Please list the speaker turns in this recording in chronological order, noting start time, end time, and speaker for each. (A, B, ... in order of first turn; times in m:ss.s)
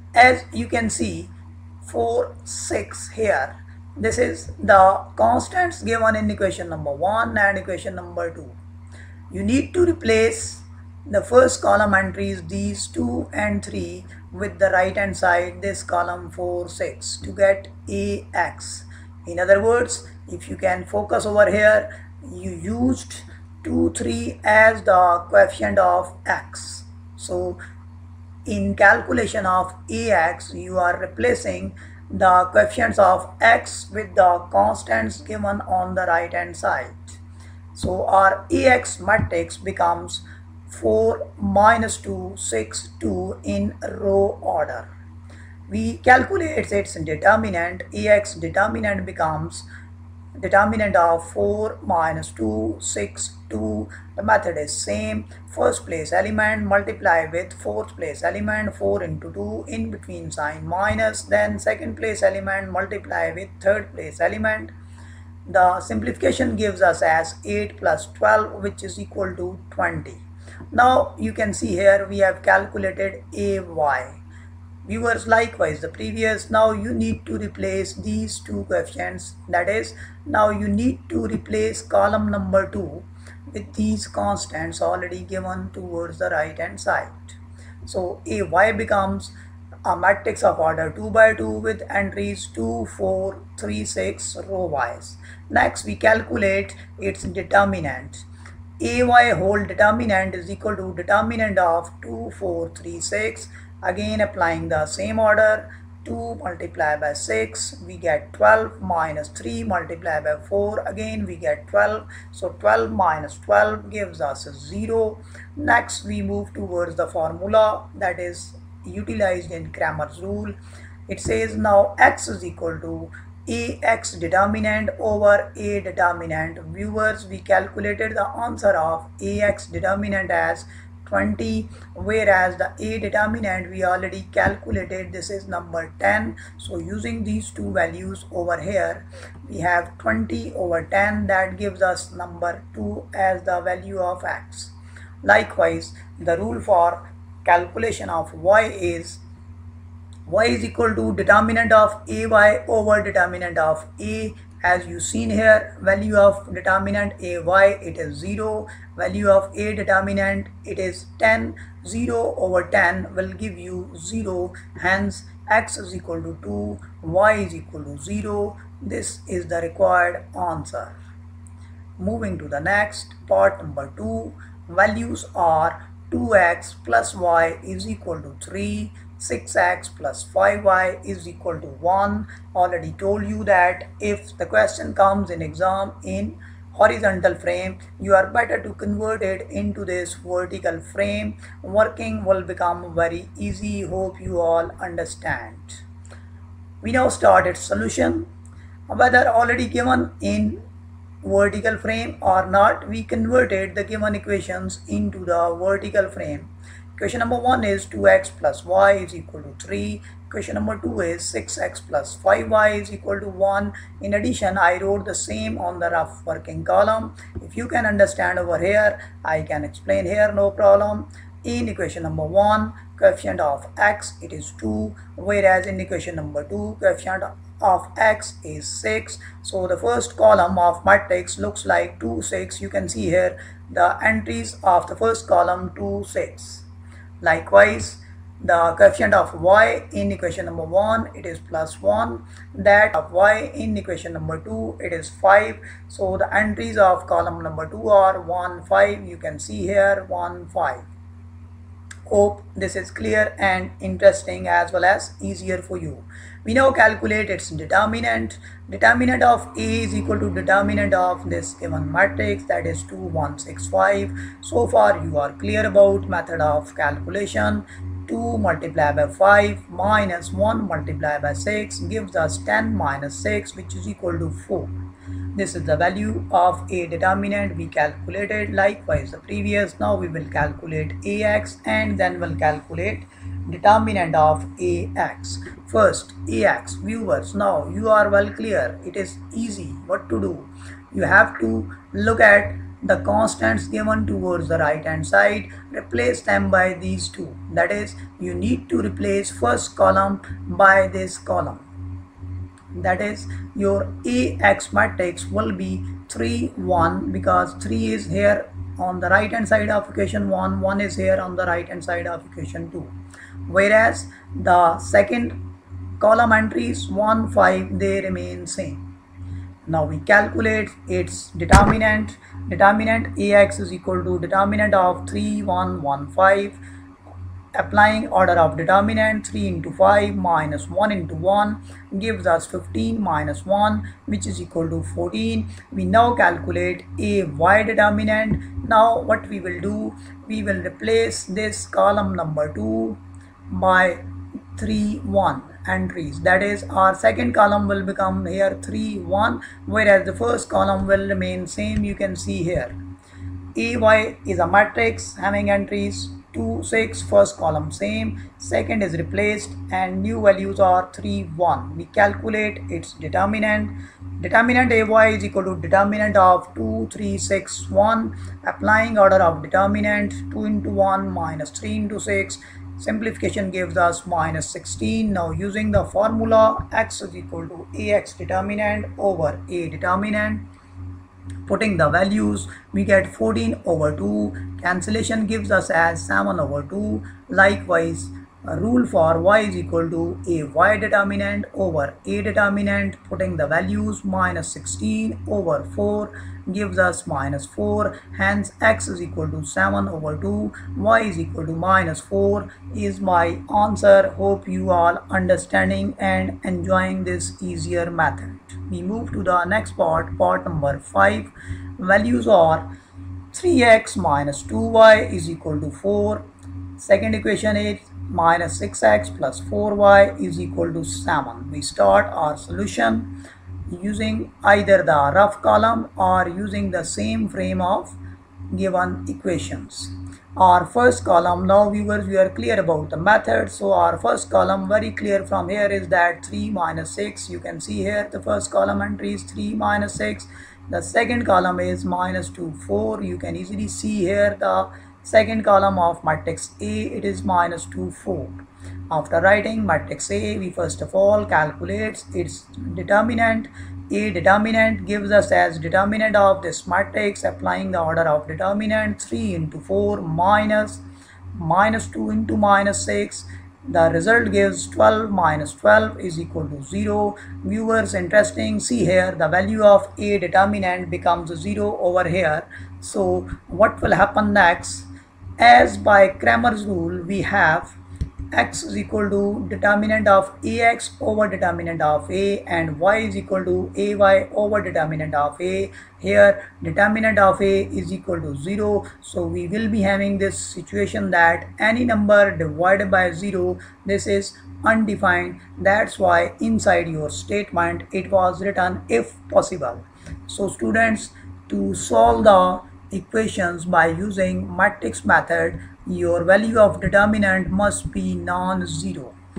0:00.1-0:01.3 A
0:01.8-0:08.6 A
0:09.3-0:27.6 A
0:28.4-0:37.2 A
0:37.7-0:44.9 A
0:45.7-0:49.7 A
0:50.4-1:04.7 A
1:05.5-1:14.2 A
1:14.8-1:29.3 A
1:29.8-1:38.2 A
1:38.8-2:00.6 A
2:01.1-2:29.2 A
2:30.2-2:51.0 A
2:52.0-3:15.8 A
3:16.8-3:18.3 A
3:18.9-3:20.6 A
3:21.2-3:56.7 A
3:57.2-4:10.9 A
4:12.1-4:34.7 A
4:35.4-5:01.6 A
5:02.7-5:12.9 A
5:13.5-5:15.4 A
5:16.0-5:18.8 A
5:19.6-5:26.6 A
5:27.5-5:44.0 A
5:44.6-5:52.8 A
5:53.6-6:20.5 A
6:21.5-6:52.7 A
6:53.3-6:56.2 A
6:56.8-7:03.2 A
7:03.7-7:08.0 A
7:08.5-7:40.8 A
7:41.4-7:57.8 A
7:58.3-8:29.2 A